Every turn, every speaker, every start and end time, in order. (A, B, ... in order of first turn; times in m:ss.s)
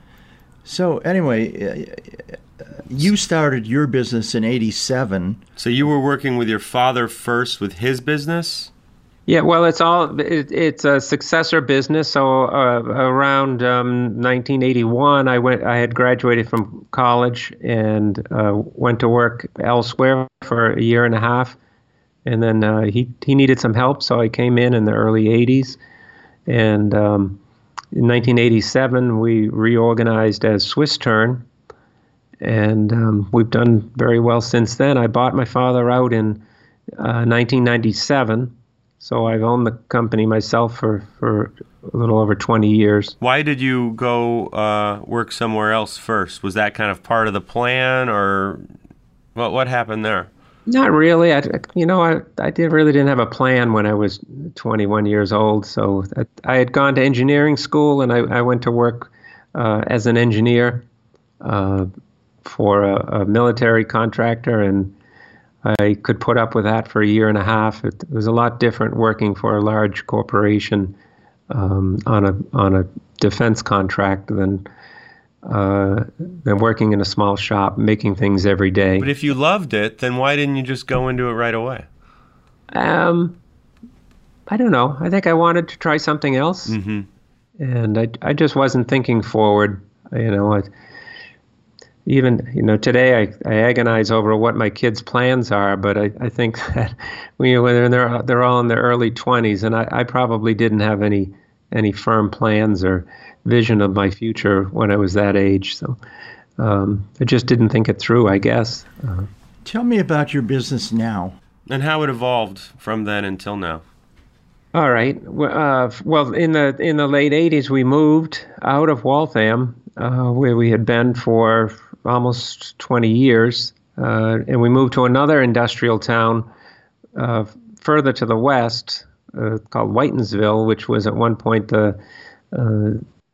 0:00.6-0:05.4 A
0:05.6-0:08.7 B
0:09.3-0:21.6 C
0:22.2-0:25.8 C
0:26.5-0:27.4 C
0:27.9-0:31.4 C
0:32.4-0:36.4 C
0:37.0-0:43.2 C
0:43.2-0:48.7 B
0:49.4-0:50.3 B
0:50.7-1:00.8 C
1:01.4-1:01.9 C
1:02.4-1:04.9 C
1:05.6-1:11.0 C
1:11.5-1:14.7 C
1:15.4-1:19.1 C
1:19.0-1:21.9 B
1:22.7-1:23.4 C
1:24.5-1:26.8 C
1:26.7-1:27.1 B
1:27.6-1:30.7 C
1:32.1-1:46.0 C
1:46.6-1:49.3 C
1:49.6-1:51.4 A
1:51.7-1:53.8 B
1:54.7-2:06.5 C
2:07.2-2:12.0 C
2:12.5-2:13.0 C